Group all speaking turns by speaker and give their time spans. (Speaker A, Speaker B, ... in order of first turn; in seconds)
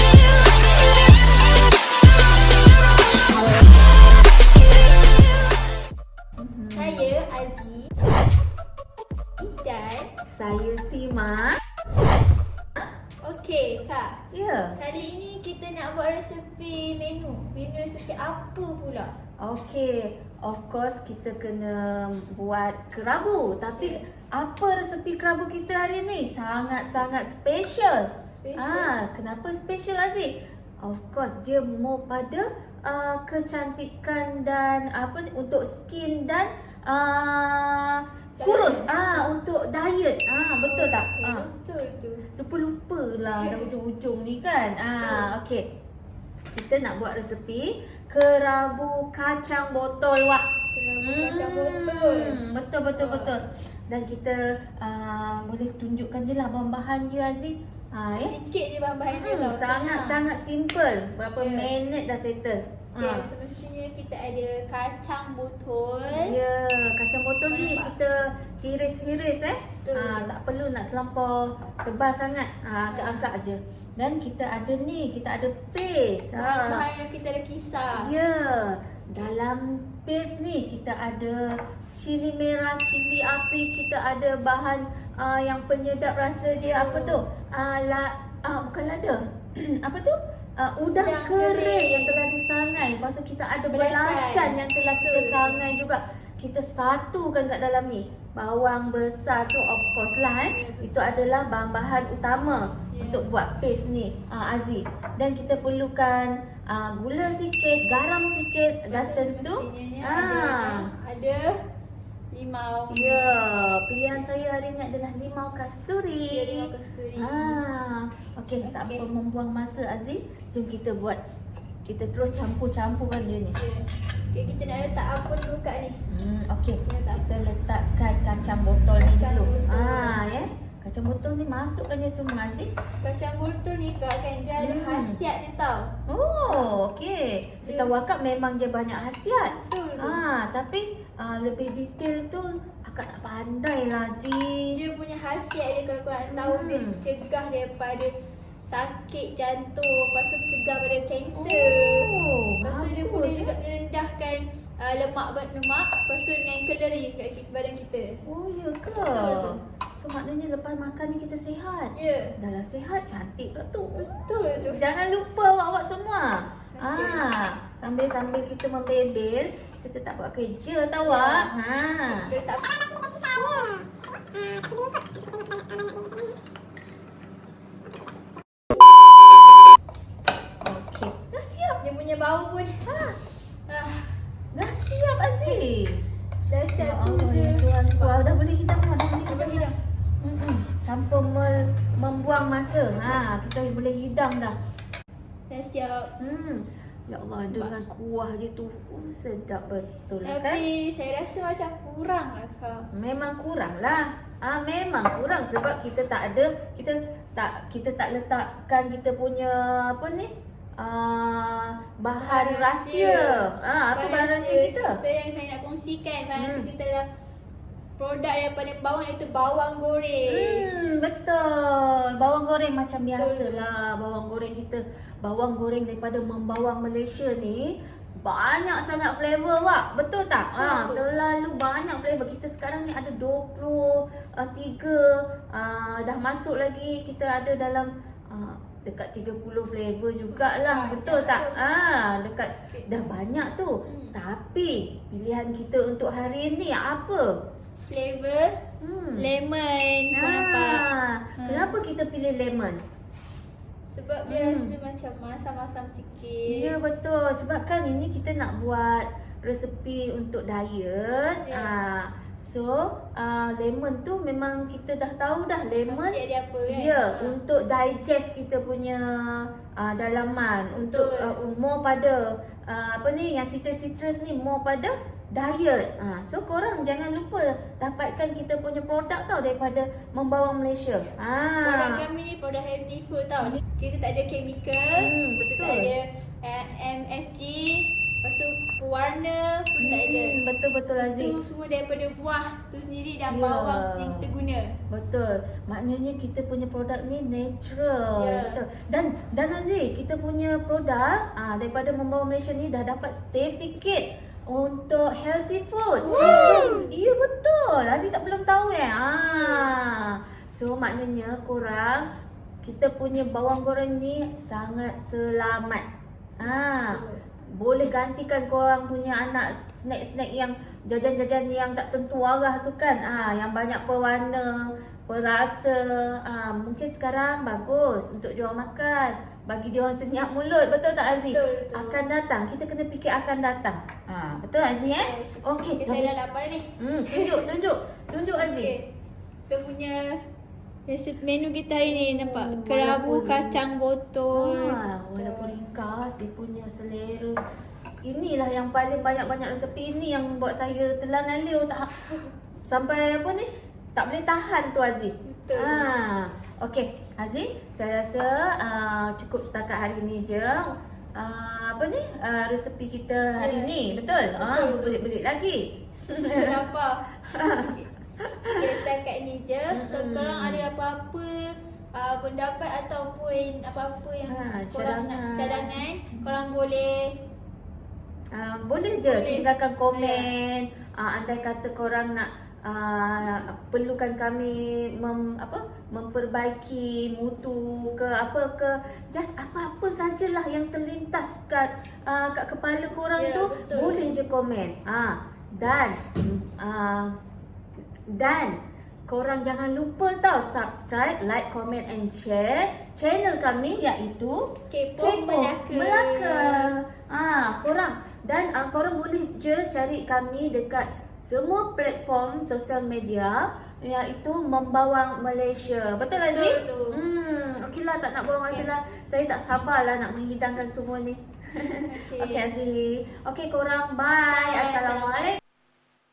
Speaker A: 6.4-7.1, 10.3-11.6, 14.3-14.8, 19.4-41.5, 42.4-45.6, 46.5-50.4, 51.0-58.4, 59.1-63.3, 66.1-76.8, 77.9-110.9, 112.9-121.2, 121.8-123.5, 126.1-132.7, 134.6-135.2, 136.1-144.8, 146.3-147.0, 151.3-153.5, 158.2-164.1, 164.6-172.3, 180.6-181.8, 182.8-183.2, 184.5-186.1, 186.8-189.7, 190.2-194.5, 196.2-200.6, 202.9-215.0, 216.3-216.7, 220.3-247.3, 248.8-249.3, 250.1-252.8, 254.3-254.7, 256.4-266.2, 266.7-282.0, 284.9-285.9, 289.8-291.4, 293.3-294.2, 294.9-312.1, 312.6-315.8, 316.4-336.1, 336.8-338.7, 341.8-343.6, 344.3-347.4, 348.0-351.9, 352.7-366.6, 367.3-368.6, 369.7-370.7, 374.3-376.3, 378.3-397.1, 398.1-425.4
Speaker B: 6.7-7.9, 9.4-10.1, 13.2-14.2, 14.8-19.1, 28.2-28.9, 38.4-39.2, 40.6-42.2, 43.4-43.7, 45.0-45.3, 50.7-52.4, 53.0-53.3, 58.1-60.2, 61.4-61.7, 63.0-66.4, 67.5-67.9, 69.8-70.3, 72.9-73.3, 76.3-78.1, 86.6-87.2, 90.9-92.2, 93.7-95.7, 100.5-100.9, 102.9-103.2, 108.9-111.6, 112.3-113.3, 116.3-117.6, 118.6-119.0, 123.5-126.0, 126.8-127.2, 129.0-130.2, 133.0-135.9, 137.6-137.9, 139.4-140.2, 144.7-158.2, 159.1-159.6, 161.9-162.3, 163.9-164.8, 166.7-167.2, 171.0-171.5, 172.1-172.8, 181.8-182.8, 183.7-184.2, 186.5-188.2, 189.3-189.8, 195.5-196.1, 200.2-202.9, 212.2-217.1, 218.0-220.7, 223.2-223.5, 230.6-231.0, 240.3-241.7, 243.8-244.1, 247.8-248.6, 249.2-250.8, 251.4-251.6, 253.8-256.7, 261.4-261.7, 265.9-267.4, 270.7-271.3, 281.6-290.4, 291.0-294.7, 298.1-298.6, 306.0-306.9, 309.4-309.7, 316.8-317.2, 331.3-332.0, 334.9-337.4, 338.4-338.8, 339.5-340.2, 340.9-345.5, 352.1-352.3, 355.2-355.9, 363.4-365.0, 366.2-367.9, 368.5-377.1, 379.0-380.3, 393.1-394.1, 404.7-406.7, 416.3-417.0, 421.6-422.5, 424.3-425.3